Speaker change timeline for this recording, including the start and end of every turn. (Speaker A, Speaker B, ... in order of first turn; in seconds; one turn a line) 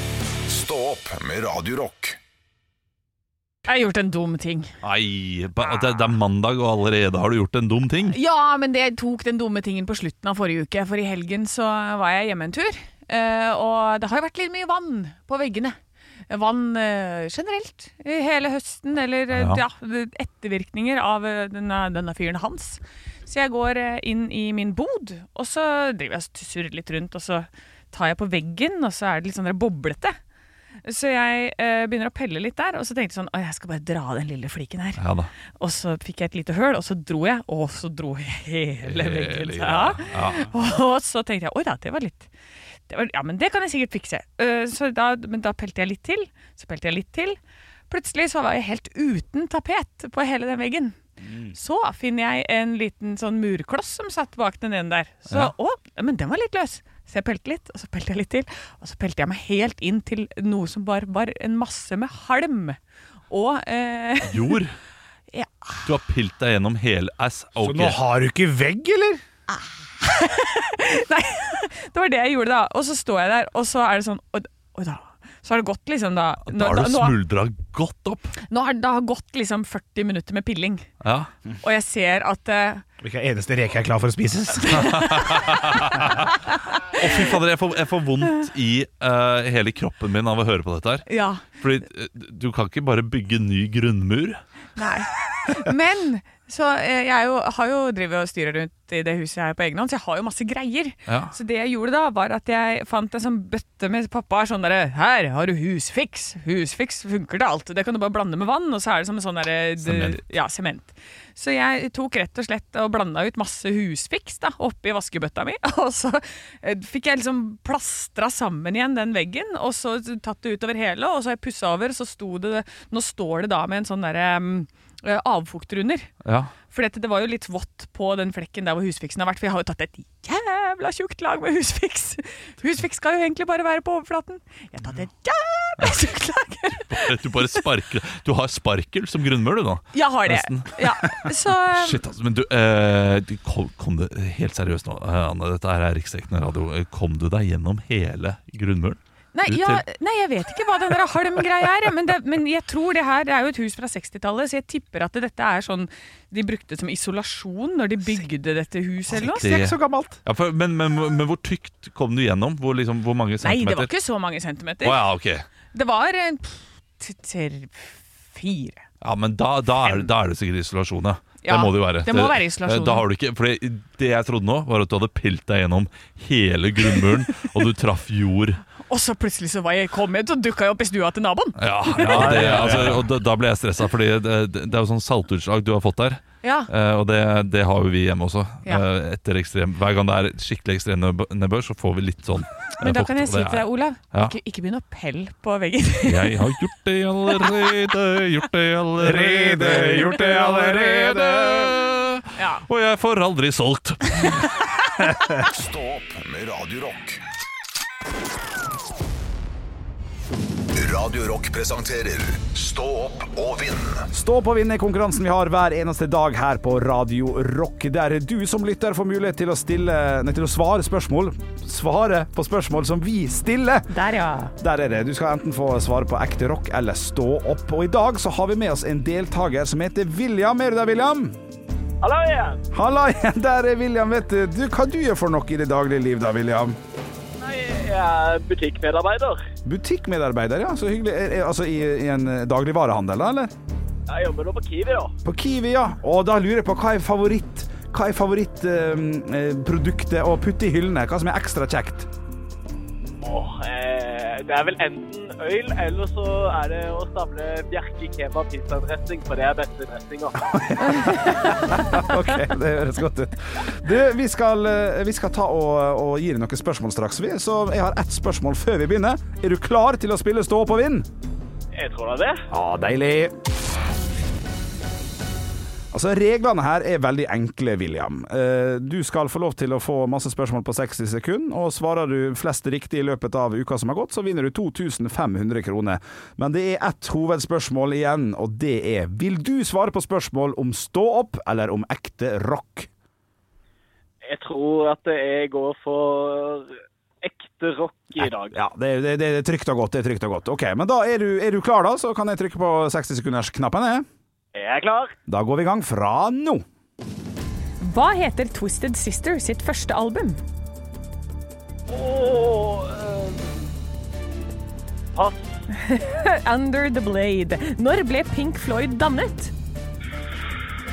Speaker A: 0.5-2.2
Speaker B: 3.6-4.7
Speaker C: 4.8-8.2
Speaker B: 8.1-15.8
Speaker B: 16.3-30.2
Speaker C: 19.3-19.6
Speaker B: 30.8-35.0
Speaker C: 35.0-35.3
Speaker B: 35.6-42.3
Speaker C: 38.8-40.5
Speaker B: 42.9-47.4
Speaker B: 47.9-51.0
Speaker D: 51.2-51.6
Speaker B: 51.5-62.8
Speaker B: 63.3-64.6
Speaker C: 64.2-64.8
Speaker B: 65.3-65.8
Speaker C: 65.8-68.0
Speaker D: 67.6-69.2
Speaker B: 69.5-77.2
Speaker C: 76.5-78.4
Speaker B: 78.5-80.9
Speaker C: 81.0-81.3
Speaker B: 81.6-82.8
Speaker D: 83.0-84.9
Speaker B: 84.6-85.5
Speaker C: 84.7-86.3
Speaker C: 86.9-94.4
Speaker B: 91.1-91.5
Speaker B: 94.8-126.1
Speaker C: 101.1-101.3
Speaker C: 109.8-110.2
Speaker C: 126.2-126.5
Speaker B: 126.7-137.4
Speaker C: 136.9-149.8
Speaker B: 139.9-142.0
Speaker B: 149.3-159.5
Speaker D: 159.1-160.2
Speaker C: 159.2-163.9
Speaker B: 163.4-165.0
Speaker C: 164.8-165.5
Speaker B: 165.7-168.8
Speaker C: 169.0-178.6
Speaker B: 171.4-173.1
Speaker B: 178.8-182.7
Speaker C: 181.6-194.3
Speaker D: 182.0-183.1
Speaker B: 186.4-186.7
Speaker B: 192.8-196.4
Speaker C: 196.1-204.4
Speaker B: 197.3-197.8
Speaker D: 199.0-201.7
Speaker B: 202.4-202.7
Speaker A: 205.4-207.2
Speaker A: 210.8-214.1
Speaker D: 214.1-223.9
Speaker B: 223.9-224.5
Speaker D: 224.6-231.4
Speaker E: 232.0-232.6
Speaker D: 232.7-236.8
Speaker E: 237.4-239.4
Speaker D: 239.6-243.5
Speaker E: 244.1-245.1
Speaker D: 245.2-252.1
Speaker E: 253.2-260.5
Speaker D: 260.4-271.1
Speaker B: 261.0-261.8
Speaker E: 271.7-272.4
Speaker D: 272.5-273.3
Speaker D: 275.9-292.9
Speaker E: 294.2-298.6
Speaker D: 298.2-304.1
Speaker E: 304.6-305.1
Speaker D: 305.3-306.6
Speaker B: 307.8-310.4
Speaker E: 311.9-313.7
Speaker E: 315.1-315.6
Speaker B: 315.7-319.5